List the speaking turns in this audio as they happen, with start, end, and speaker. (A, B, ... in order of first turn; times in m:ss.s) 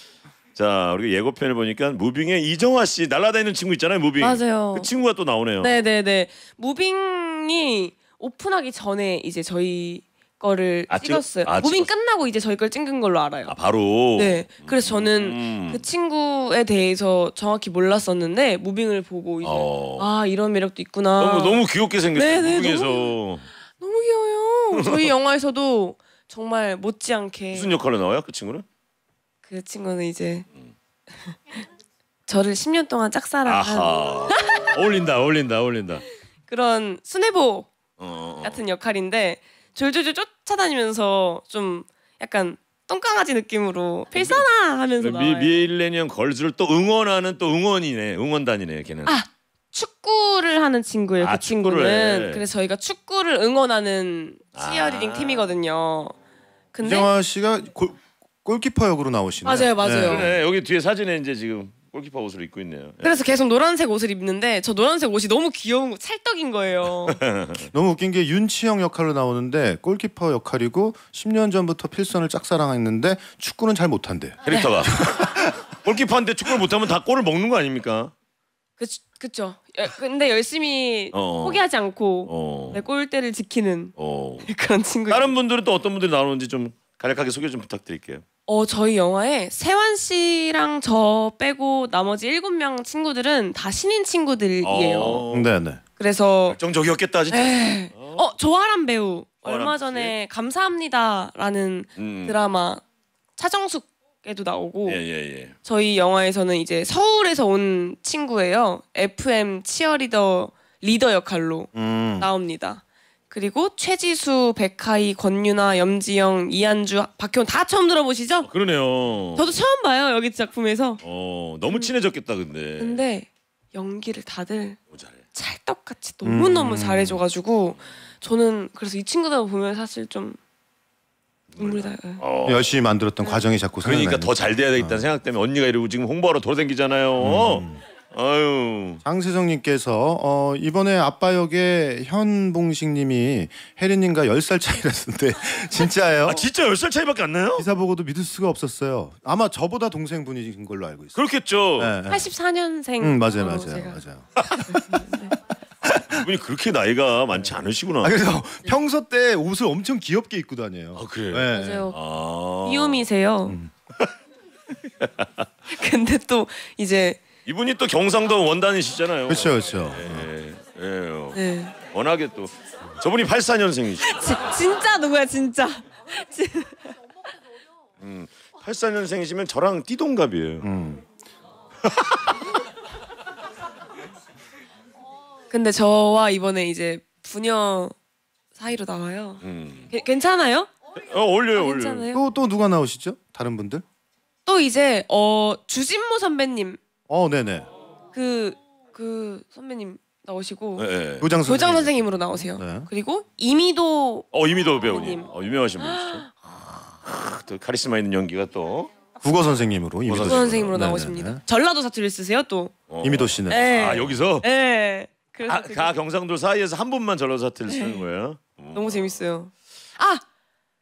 0:00.5-0:05.7 A
0:04.2-0:04.9 B
0:05.6-0:13.5 B
0:10.9-0:11.9 A
0:13.4-0:15.8 A
0:14.2-0:21.6 B
0:19.4-0:20.1 A
0:21.2-0:23.5 A
0:22.2-0:23.1 B
0:23.8-0:27.7 B
0:24.7-0:25.1 A
0:27.5-0:28.6 A
0:29.4-0:30.4 B
0:31.3-0:31.6 B
0:32.3-0:34.7 B
0:33.4-0:36.0 A
0:36.5-0:37.7 B
0:38.0-0:38.6 A
0:38.4-0:45.5 B
0:44.1-0:44.4 A
0:45.0-0:49.1 A
0:49.0-0:56.1 B
0:51.2-0:52.4 A
0:54.5-0:55.5 A
0:56.7-0:57.1 B
0:56.8-1:00.3 C
0:59.4-1:00.3 B
1:00.0-1:03.1 A
1:03.0-1:07.2 B
1:07.1-1:07.7 A
1:07.7-1:14.4 C
1:14.4-1:14.8 B
1:14.4-1:18.1 A
1:15.0-1:15.3 C
1:18.8-1:23.9 B
1:21.1-1:21.6 A
1:22.2-1:22.8 A
1:24.0-1:24.5 A
1:24.4-1:25.3 B
1:25.1-1:28.2 A
1:28.5-1:35.2 B
1:34.6-1:35.5 A
1:35.3-1:35.8 C
1:36.0-1:36.6 B
1:36.5-1:38.3 A
1:37.3-1:42.8 B
1:39.4-1:40.1 A
1:42.0-1:42.4 A
1:43.4-1:45.0 B
1:44.8-1:45.5 A
1:45.6-1:58.5 B
1:51.7-1:52.3 C
1:58.4-1:59.5 A
1:59.4-2:01.0 B
2:01.0-2:03.0 A
2:02.8-2:04.8 B
2:05.3-2:10.4 B
2:06.2-2:07.2 C
2:11.5-2:12.7 A
2:11.6-2:12.2 B
2:12.4-2:15.0 C
2:13.8-2:19.0 A
2:17.2-2:17.8 C
2:19.0-2:26.5 C
2:26.2-2:27.7 A
2:27.6-2:31.2 C
2:31.1-2:32.0 A
2:31.8-2:32.3 C
2:32.1-2:34.0 B
2:33.0-2:34.3 C
2:34.4-2:34.7 A
2:34.7-2:35.3 B
2:35.9-2:38.2 A
2:37.4-2:41.9 C
2:40.9-2:43.0 A
2:41.5-2:42.0 B
2:42.6-2:43.6 B
2:43.4-2:43.7 C
2:45.0-2:45.5 A
2:45.7-2:47.2 B
2:47.4-2:51.4 A
2:49.3-2:50.3 C
2:51.3-2:51.7 B
2:51.9-2:54.4 A
2:54.0-2:56.9 B
2:58.0-3:00.7 A
3:00.6-3:01.0 C
3:01.8-3:02.4 A
3:05.5-3:07.9 B
3:08.6-3:10.7 B
3:09.4-3:09.9 A
3:11.0-3:12.1 A
3:11.5-3:12.2 B
3:12.1-3:13.8 C
3:14.4-3:16.8 B
3:17.1-3:17.7 C
3:18.1-3:20.9 B
3:20.8-3:21.3 A
3:21.2-3:22.9 C
3:21.4-3:24.3 B
3:24.3-3:26.3 A
3:24.8-3:25.3 B
3:25.8-3:26.5 B
3:27.0-3:28.9 A
3:29.2-3:31.4 C
3:30.0-3:30.8 A
3:30.3-3:32.7 B
3:32.9-3:34.4 A
3:33.0-3:33.7 C
3:33.5-3:35.9 B
3:35.5-3:39.2 A
3:37.7-3:38.0 B
3:38.7-3:40.2 B